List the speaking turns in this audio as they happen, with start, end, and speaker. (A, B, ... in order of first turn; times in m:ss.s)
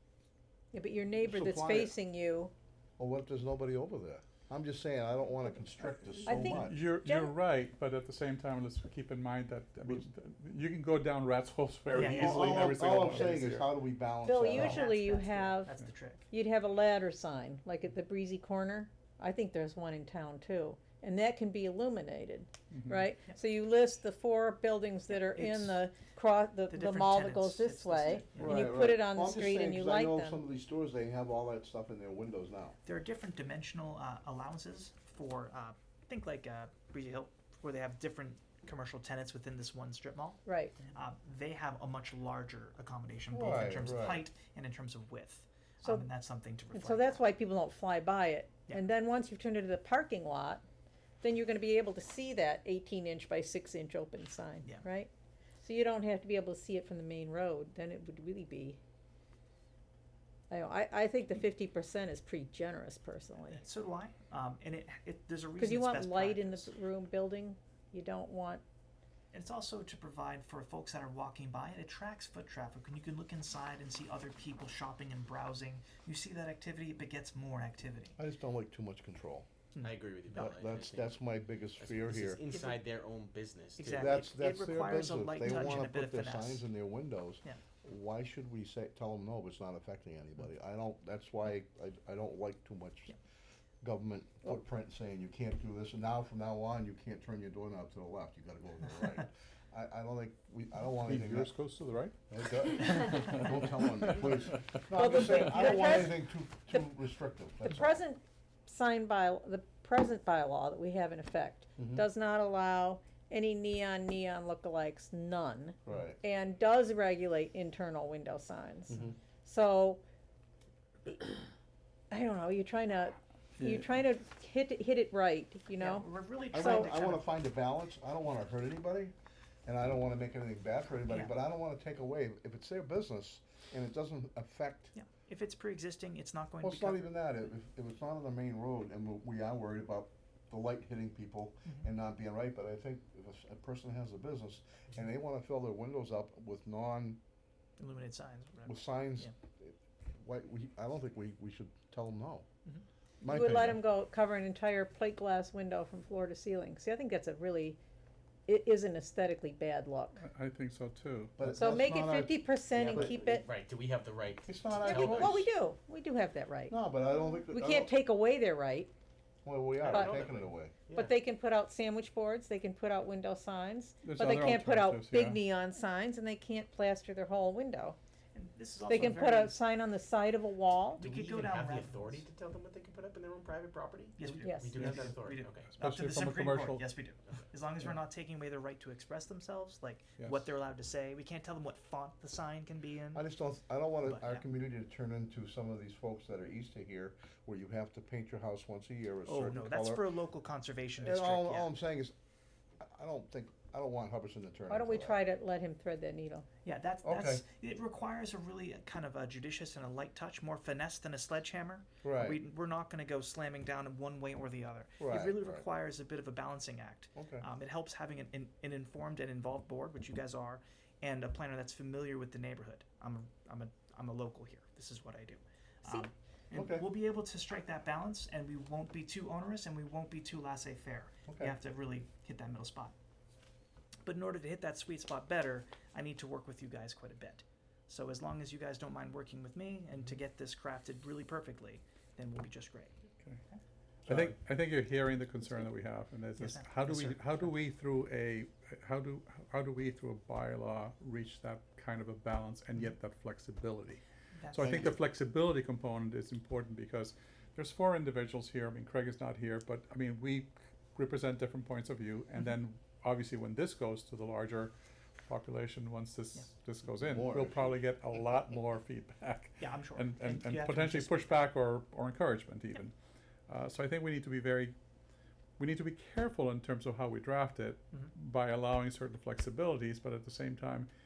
0:00.7-0:02.5 A
0:01.2-0:01.9 B
0:03.0-0:06.8 B
0:06.3-0:07.3 A
0:06.3-0:13.7 C
0:11.9-0:13.2 D
0:12.0-0:14.8 B
0:14.2-0:15.7 A
0:14.3-0:16.2 D
0:16.3-0:30.4 A
0:22.7-0:23.1 C
0:25.2-0:25.8 D
0:26.7-0:28.6 D
0:28.3-0:32.8 B
0:32.8-0:47.2 D
0:40.4-0:40.8 A
0:43.3-0:44.3 B
0:46.7-0:50.6 A
0:51.2-0:58.8 A
1:00.5-1:03.6 A
1:03.5-1:06.7 D
1:05.6-1:08.6 A
1:09.3-1:18.2 D
1:18.2-1:19.5 B
1:19.7-1:20.6 D
1:19.8-1:24.2 E
1:20.3-1:22.4 B
1:22.5-1:22.8 D
1:23.8-1:26.7 D
1:24.0-1:33.2 B
1:33.8-1:41.5 B
1:41.0-1:43.6 C
1:42.3-1:48.0 B
1:44.2-1:44.8 C
1:44.9-1:46.8 A
1:47.6-2:00.0 A
1:51.8-1:52.0 B
1:55.8-1:56.2 B
2:02.1-2:06.9 A
2:03.6-2:03.9 C
2:05.8-2:07.3 D
2:06.5-2:09.1 B
2:09.7-2:14.9 B
2:11.1-2:11.3 D
2:14.9-2:17.1 D
2:16.6-2:27.2 B
2:27.8-2:29.3 D
2:28.7-2:32.5 B
2:33.2-2:33.8 B
2:33.2-2:37.8 A
2:38.5-2:40.2 A
2:40.2-2:41.6 C
2:41.4-2:43.4 B
2:41.6-2:43.5 A
2:42.9-2:45.4 E
2:44.5-2:45.5 B
2:44.8-2:46.8 A
2:46.7-2:47.9 B
2:47.5-2:48.9 A
2:49.4-2:50.8 B
2:49.8-2:51.1 E
2:50.9-2:58.0 A
2:54.0-2:55.4 C
2:58.3-2:59.6 D
2:58.9-3:01.0 A
3:01.0-3:02.2 D
3:01.0-3:05.8 E
3:04.2-3:13.2 D
3:04.4-3:04.9 A
3:05.8-3:06.8 C
3:13.1-3:20.0 B
3:14.0-3:14.4 D
3:19.2-3:21.7 D
3:21.0-3:22.1 B
3:22.8-3:25.2 B
3:24.7-3:26.5 A
3:26.6-3:52.9 D
3:27.0-3:27.4 B
3:32.0-3:32.4 B
3:35.0-3:35.6 B
3:37.2-3:37.5 B
3:46.5-3:46.9 B
3:51.3-3:51.5 B
3:54.0-4:02.9 D
4:04.1-4:32.9 C
4:06.4-4:07.5 D
4:14.3-4:14.8 D
4:14.6-4:15.0 B
4:27.0-4:27.8 B
4:29.6-4:31.4 D
4:33.5-4:34.8 C
4:35.6-4:40.9 C